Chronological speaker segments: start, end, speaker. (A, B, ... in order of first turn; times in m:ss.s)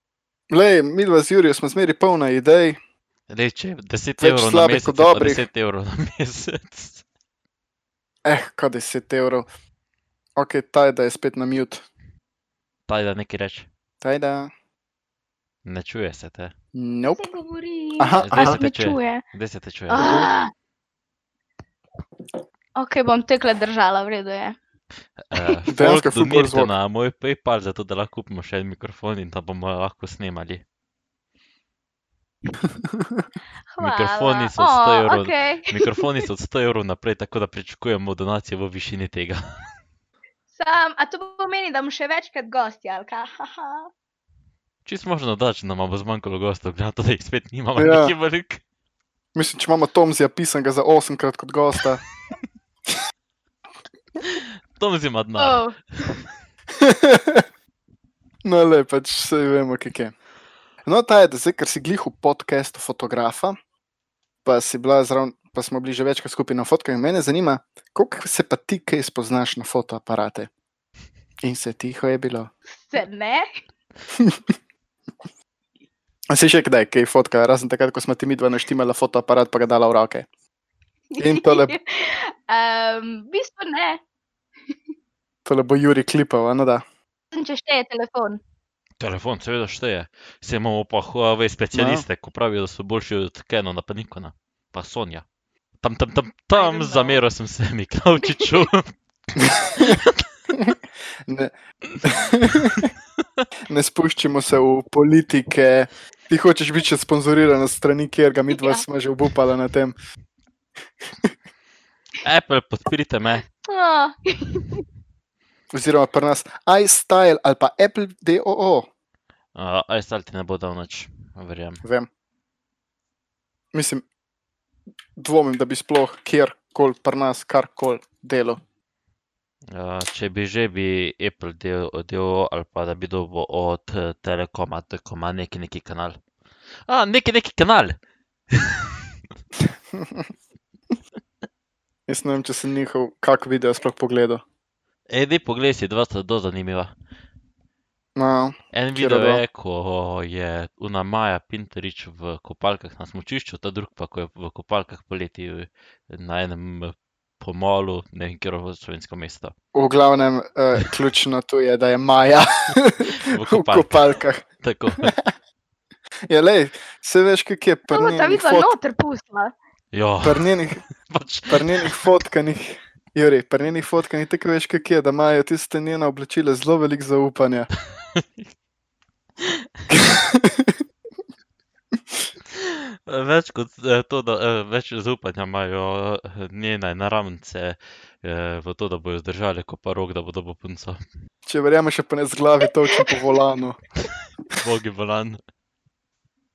0:00.5-0:02.8 A
0:03.3-0:07.0 B
0:04.2-0:05.4 A
0:08.2-0:09.5 A
0:10.4-0:11.9 A
0:12.9-0:13.7 B
0:14.0-0:14.5 A
0:15.6-0:16.5 B
0:16.8-0:17.2 A
0:17.1-0:19.2 C
0:18.0-0:18.6 A
0:18.2-0:20.3 B
0:19.9-0:20.5 C
0:20.0-0:20.3 A
0:22.8-0:24.6 C
0:25.2-0:30.6 B
0:25.7-0:26.7 A
0:32.7-0:33.3 A
0:33.7-0:36.1 C
0:33.8-0:39.4 B
0:40.5-0:43.9 C
0:44.8-0:48.6 B
0:47.8-0:48.1 A
0:49.4-0:52.0 A
0:54.2-0:56.2 B
0:55.4-0:55.8 C
0:56.8-0:57.4 A
0:58.4-1:00.2 A
1:00.9-1:03.6 A
1:04.4-1:10.5 A
1:11.4-1:12.5 A
1:12.7-1:13.5 C
1:14.2-1:14.4 A
1:16.3-1:20.3 A
1:21.1-1:24.0 C
1:21.2-1:21.7 A
1:25.4-1:26.8 A
1:27.3-1:28.4 C
1:29.0-1:35.3 B
1:31.7-1:32.1 A
1:35.8-1:38.9 B
1:36.6-1:37.2 C
1:39.4-1:40.0 A
1:39.8-1:40.2 B
1:40.5-1:41.5 A
1:42.0-1:42.9 A
1:43.7-1:50.0 A
1:48.5-1:48.8 C
1:52.2-1:53.4 B
1:53.6-1:54.8 C
1:55.7-1:58.9 A
1:59.6-2:01.8 B
2:03.7-2:04.0 A
2:05.2-2:08.6 A
2:09.7-2:16.2 B
2:16.9-2:18.0 B
2:18.5-2:19.1 B
2:19.9-2:20.3 A
2:22.1-2:24.4 A
2:25.1-2:26.9 B
2:28.2-2:29.4 A
2:28.7-2:39.5 B
2:39.7-2:44.4 A
2:43.2-2:44.1 B
2:44.6-2:45.1 B
2:45.0-2:45.3 A
2:46.3-2:48.7 A
2:47.9-2:49.5 C
2:49.9-2:52.1 B
2:50.2-2:50.8 A
2:51.5-2:57.7 A
2:58.0-2:58.5 B
2:59.4-2:59.8 B
2:59.9-3:00.8 A
3:02.5-3:11.0 B
3:11.5-3:13.8 A
3:14.6-3:15.4 B